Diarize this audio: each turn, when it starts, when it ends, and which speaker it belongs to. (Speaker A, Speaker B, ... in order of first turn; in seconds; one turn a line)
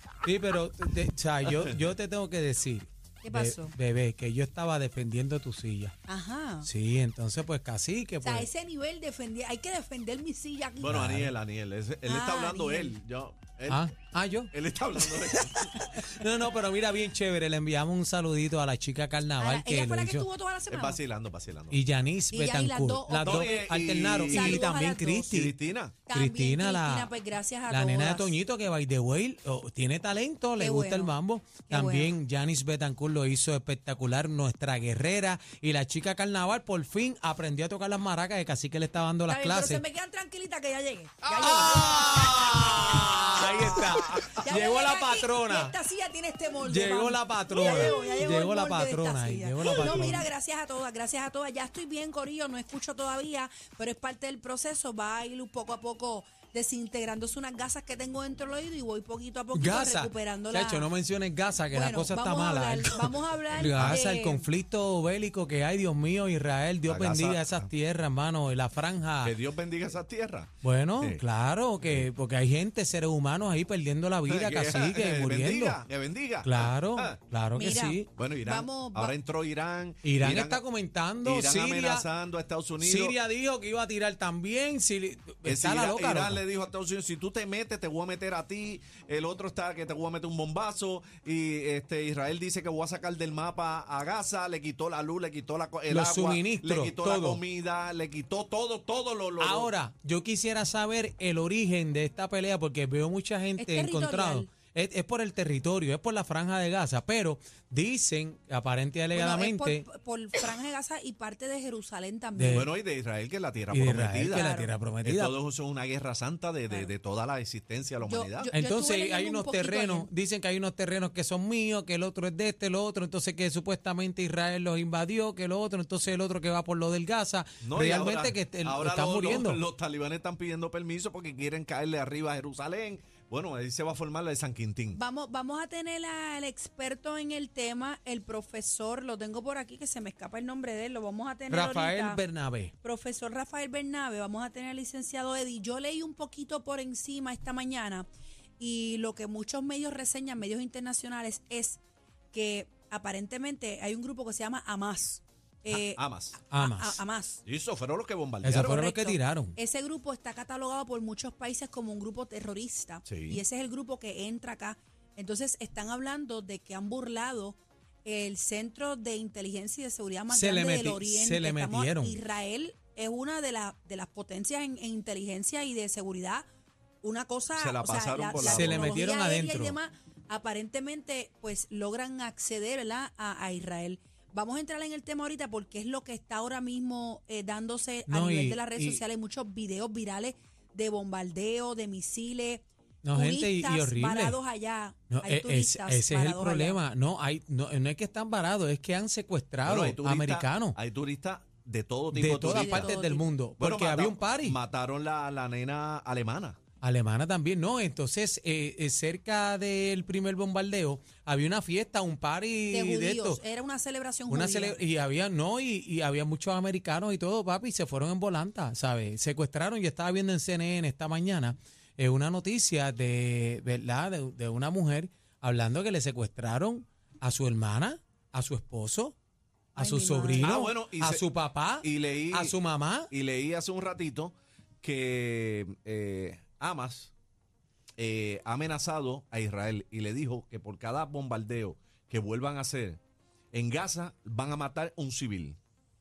Speaker A: 0.2-5.9
Speaker B: 1.4-1.8
Speaker C: 3.2-3.7
Speaker C: 6.1-6.7
Speaker A: 6.6-8.5
Speaker C: 8.2-11.0
Speaker B: 10.8-13.9
Speaker A: 10.8-11.3
Speaker C: 12.1-12.9
Speaker A: 13.7-14.5
Speaker B: 14.5-16.1
Speaker A: 15.2-20.3
Speaker C: 19.4-21.0
Speaker B: 20.7-21.8
Speaker A: 21.7-25.6
Speaker C: 22.3-23.7
Speaker B: 23.2-24.7
Speaker C: 24.2-25.3
Speaker B: 25.2-26.0
Speaker C: 26.1-28.4
Speaker A: 26.1-27.1
Speaker A: 27.7-39.8
Speaker C: 30.6-31.1
Speaker C: 31.7-32.1
Speaker C: 39.3-43.8
Speaker B: 41.2-42.4
Speaker A: 41.4-45.7
Speaker B: 43.6-44.4
Speaker C: 44.4-60.9
Speaker A: 46.6-50.3
Speaker A: 59.5-69.3
Speaker C: 61.7-64.5
Speaker B: 63.5-64.0
Speaker B: 66.8-67.7
Speaker B: 69.2-71.2
Speaker A: 70.6-75.8
Speaker B: 71.8-72.1
Speaker B: 74.3-77.2
Speaker A: 76.4-78.1
Speaker C: 77.5-79.2
Speaker B: 78.1-80.6
Speaker A: 80.0-82.0
Speaker B: 81.2-83.2
Speaker A: 82.8-86.4
Speaker B: 85.4-99.7
Speaker A: 95.9-97.4
Speaker A: 99.4-109.8
Speaker C: 103.6-104.5
Speaker C: 109.1-112.7
Speaker A: 112.3-112.7
Speaker B: 112.5-114.5
Speaker A: 113.7-115.3
Speaker C: 114.3-114.7
Speaker B: 115.0-118.5
Speaker C: 118.0-120.1
Speaker A: 118.5-129.6
Speaker B: 127.6-135.0
Speaker C: 134.9-142.2
Speaker A: 141.5-142.7
Speaker C: 142.8-148.1
Speaker C: 148.6-151.8
Speaker C: 152.3-157.4
Speaker B: 155.7-156.4
Speaker A: 156.5-157.0
Speaker B: 157.4-158.7
Speaker A: 158.4-159.6
Speaker C: 158.5-176.4
Speaker B: 163.1-163.4
Speaker A: 170.3-172.2
Speaker C: 177.0-196.8
Speaker B: 177.6-179.0
Speaker A: 178.4-179.8
Speaker A: 188.1-189.0
Speaker A: 193.0-194.4
Speaker A: 195.1-200.8
Speaker B: 199.6-202.9
Speaker A: 202.1-204.6
Speaker C: 202.4-203.3
Speaker B: 203.6-206.6
Speaker A: 206.8-213.4
Speaker C: 212.7-214.8
Speaker A: 214.3-229.1
Speaker C: 229.8-230.5
Speaker A: 229.8-233.1
Speaker B: 230.4-231.2
Speaker B: 231.8-232.6
Speaker B: 233.1-237.1
Speaker B: 238.0-243.0
Speaker B: 243.5-245.6